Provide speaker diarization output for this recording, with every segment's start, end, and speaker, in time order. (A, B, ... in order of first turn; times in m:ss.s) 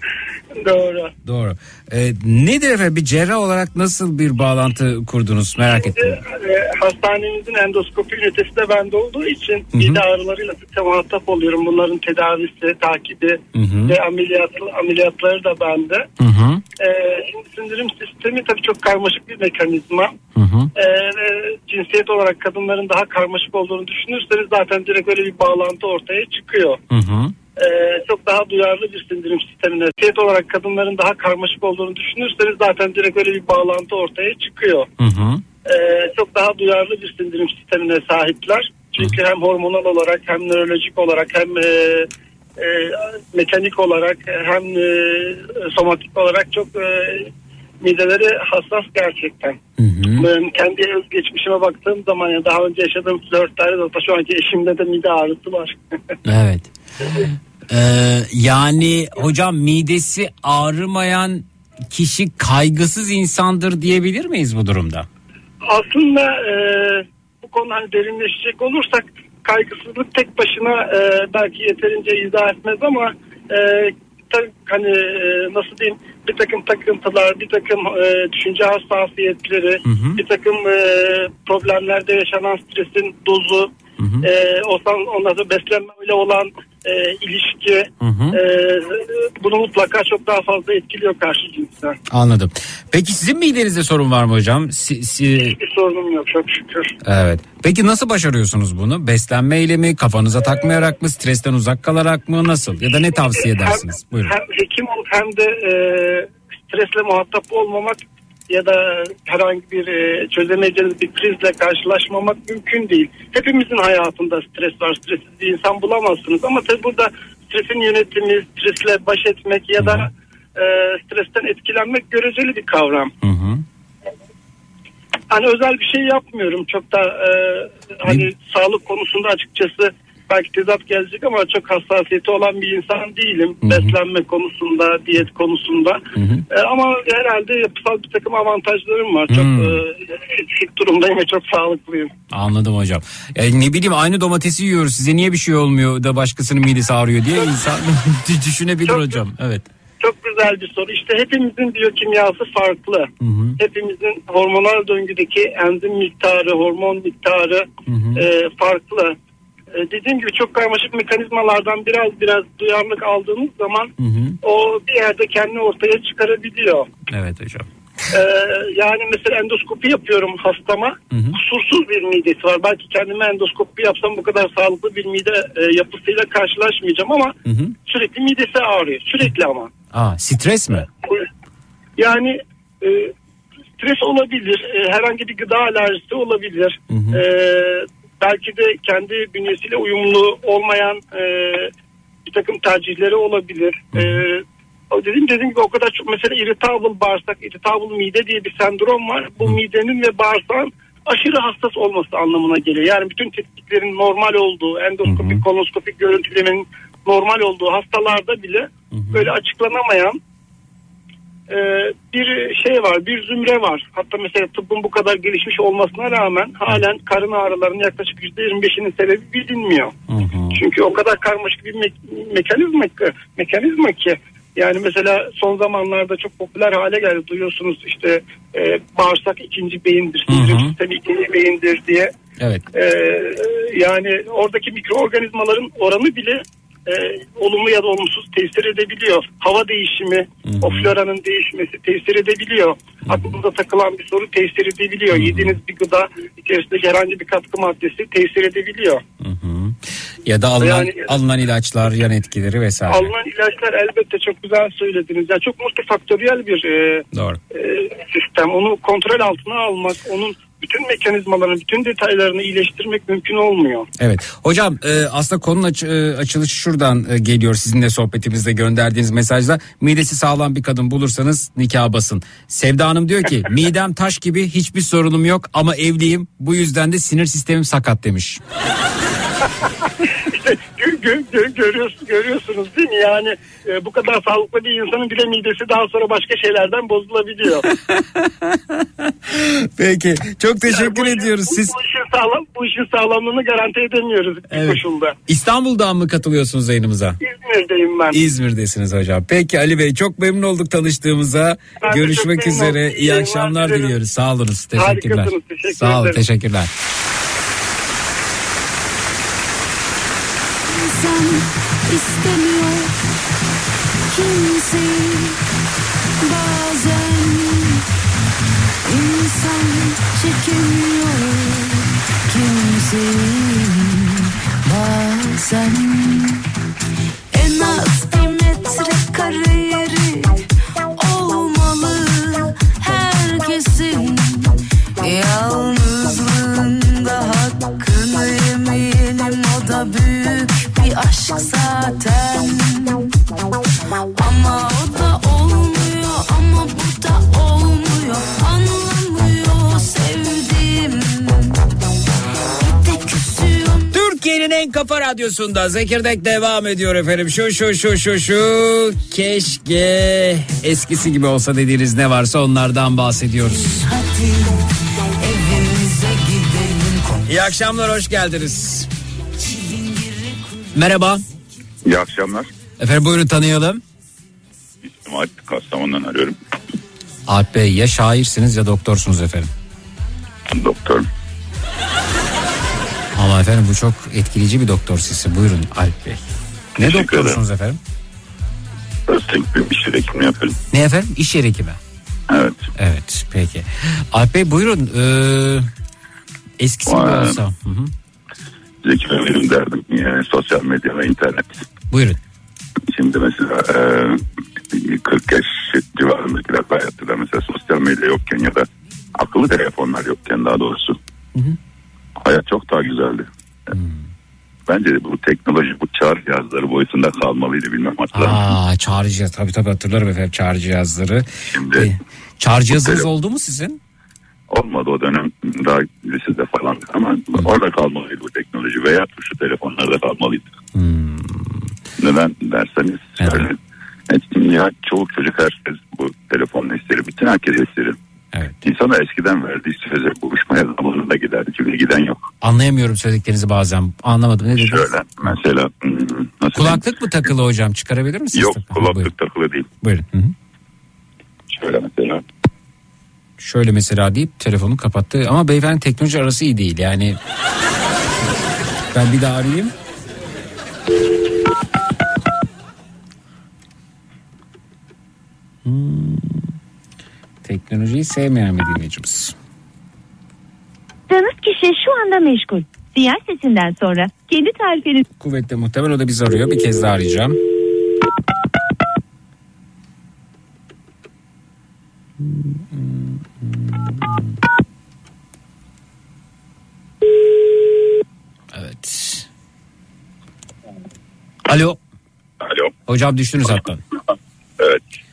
0:00.6-0:01.1 A
0:01.2-0:06.2 B
0:05.7-0:16.0 A
0:09.7-0:10.0 B
0:13.5-0:14.0 B
0:16.2-0:16.6 B
0:16.8-0:20.1 A
0:20.4-0:20.7 B
0:20.8-0:26.8 A
0:26.9-0:27.4 B
0:27.6-0:34.9 A
0:35.0-0:35.4 B
0:35.7-0:47.3 A
0:47.8-0:49.6 A
0:49.8-0:50.3 B
0:50.2-0:55.8 A
0:56.2-1:05.1 B
1:05.7-1:32.0 A
1:19.8-1:20.2 B
1:24.0-1:24.3 B
1:28.0-1:28.4 B
1:32.1-1:35.6 B
1:35.5-1:36.9 A
1:37.0-1:44.4 B
1:43.2-2:03.1 A
1:59.8-2:00.1 B
2:03.2-2:03.6 B
2:05.3-2:22.1 A
2:13.6-2:14.0 B
2:16.2-2:16.4 B
2:19.3-2:19.8 B
2:22.3-2:29.7 B
2:28.8-2:29.2 A
2:30.0-2:39.2 A
2:33.2-2:33.6 B
2:37.9-2:38.2 B
2:39.7-2:43.9 A
2:44.0-2:44.4 B
2:44.4-2:46.9 A
2:47.1-2:47.7 B
2:48.1-2:57.3 A
2:51.1-2:51.4 B
2:57.4-2:57.8 B
2:57.9-2:59.7 A
2:59.9-3:00.9 B
3:02.0-3:03.1 A
3:03.8-3:11.7 A
3:06.9-3:07.2 B
3:12.2-3:30.2 A
3:13.9-3:14.2 B
3:25.1-3:25.4 B
3:28.9-3:29.3 B
3:31.5-3:39.9 A
3:40.1-3:40.6 B
3:40.5-3:52.1 A
3:50.3-3:50.8 B
3:52.4-3:52.7 B
3:52.7-4:09.0 A
4:00.4-4:00.9 B
4:03.1-4:03.4 B
4:05.1-4:05.6 B
4:09.2-4:13.1 B
4:10.6-4:11.1 A
4:12.9-4:23.9 A
4:17.1-4:17.4 B
4:24.0-4:38.4 B
4:40.2-4:47.7 A
4:47.6-4:51.7 B
4:50.7-4:55.2 A
4:54.5-4:57.2 B
4:57.2-4:58.2 A
4:58.1-5:06.7 B
5:01.8-5:04.0 A
5:04.8-5:06.2 A
5:10.7-5:12.9 C
5:14.1-5:15.4 C
5:16.2-5:17.8 C
5:18.9-5:26.4 C
5:27.3-5:30.4 C
5:31.0-5:43.0 C
5:44.2-5:51.5 C
5:52.7-5:53.9 C
5:53.9-6:03.8 B
6:03.6-6:04.6 C
6:05.2-6:07.3 C
6:07.3-6:08.9 B
6:09.4-6:10.9 C
6:10.7-6:11.2 B
6:11.8-6:12.5 D
6:12.8-6:13.8 B
6:14.9-6:16.4 D
6:17.3-6:19.5 B
6:20.5-6:21.1 D
6:23.2-6:27.8 B
6:26.8-6:27.4 D
6:29.1-6:30.6 D
6:30.7-6:31.8 B
6:32.3-6:32.6 D
6:32.8-6:35.7 B
6:36.6-6:37.9 B
6:36.9-6:37.4 D
6:38.8-6:41.6 D
6:41.9-6:42.2 B
6:42.9-6:51.0 D
6:52.2-6:53.3 D
6:53.7-6:54.0 B
6:54.7-6:58.6 D
6:58.1-7:03.8 B
7:01.5-7:01.9 D
7:02.7-7:03.1 D
7:04.5-7:10.5 D
7:10.8-7:11.7 B
7:12.0-7:13.6 D
7:13.2-7:13.5 B
7:14.1-7:18.0 D
7:18.3-7:18.6 B
7:18.6-7:22.2 D
7:22.4-7:24.9 B
7:24.6-7:26.9 D
7:26.5-7:29.1 B
7:28.4-7:29.7 D
7:29.8-7:30.3 B
7:31.5-7:32.2 D
7:33.4-7:37.2 B
7:38.9-7:39.7 B
7:45.6-7:46.5 B
7:47.4-7:49.3 B
7:51.1-7:55.0 E
7:55.2-7:57.4 B
8:02.2-8:04.2 B
8:08.5-8:09.3 B
8:11.5-8:11.8 B
8:12.4-8:12.7 D
8:12.9-8:13.8 B